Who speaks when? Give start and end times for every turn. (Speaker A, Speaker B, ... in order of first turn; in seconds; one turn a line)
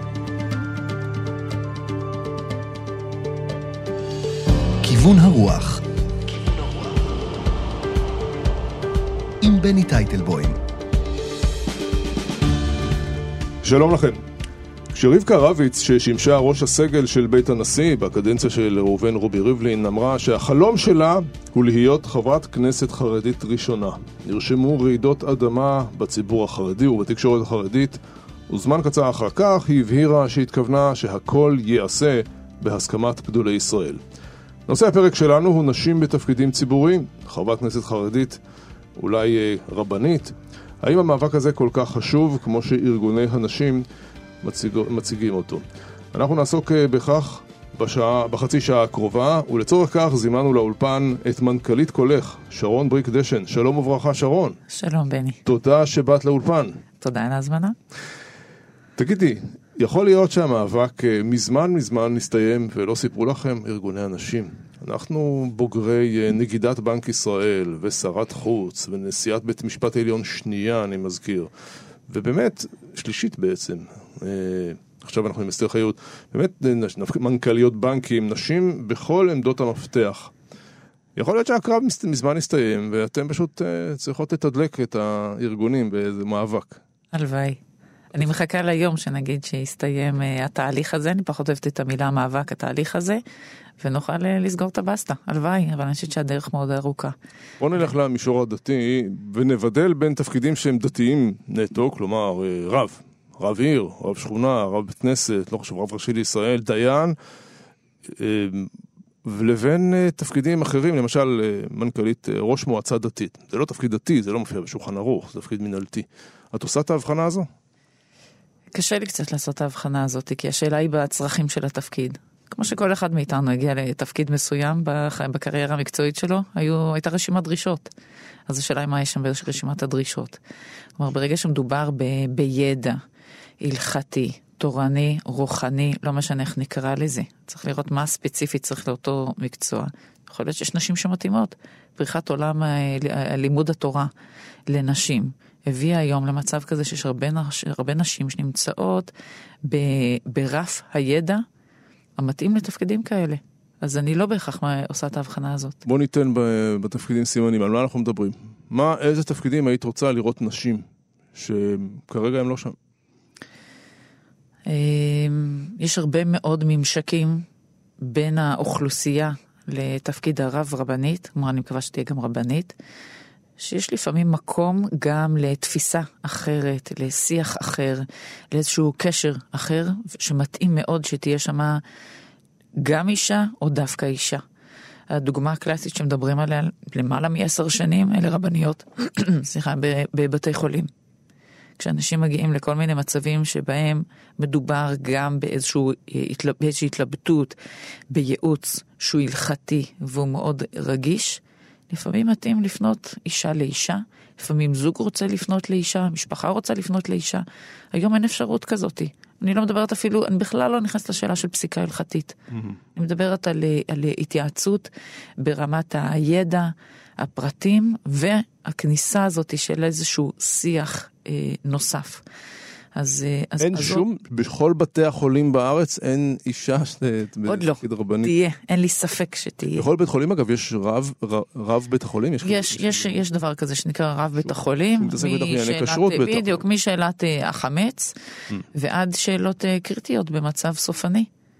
Speaker A: 4.8-6.9
Speaker A: 9.4-10.6
Speaker B: 13.6-14.2
Speaker B: 14.9-34.0
Speaker B: 34.7-38.4
Speaker B: 39.0-43.8
Speaker B: 44.4-54.6
Speaker C: 54.7-55.4
Speaker B: 55.4-56.8
Speaker C: 57.0-57.8
Speaker B: 59.0-71.5
Speaker B: 72.1-80.3
Speaker B: 81.2-86.8
Speaker C: 87.1-87.6
Speaker C: 88.1-93.2
Speaker C: 93.8-97.1
Speaker B: 97.6-107.2
Speaker B: 108.0-108.7
Speaker B: 109.2-117.5
Speaker C: 118.7-127.9
Speaker C: 128.5-130.4
Speaker C: 131.0-133.0
Speaker C: 133.6-144.1
Speaker C: 144.7-149.1
Speaker C: 149.6-151.4
Speaker C: 152.2-155.8
Speaker B: 155.8-162.8
Speaker C: 164.7-167.4
Speaker C: 168.0-172.7
Speaker C: 173.6-181.8
Speaker C: 182.8-184.4
Speaker C: 185.1-190.9
Speaker C: 191.8-197.6
Speaker C: 198.1-212.4
Speaker B: 212.5-212.8
Speaker C: 212.9-214.9
Speaker C: 215.4-222.2
Speaker C: 222.9-224.0
Speaker B: 223.6-228.3
Speaker C: 227.4-229.8
Speaker B: 229.7-233.2
Speaker C: 232.4-238.1
Speaker B: 235.0-236.6
Speaker C: 238.7-241.3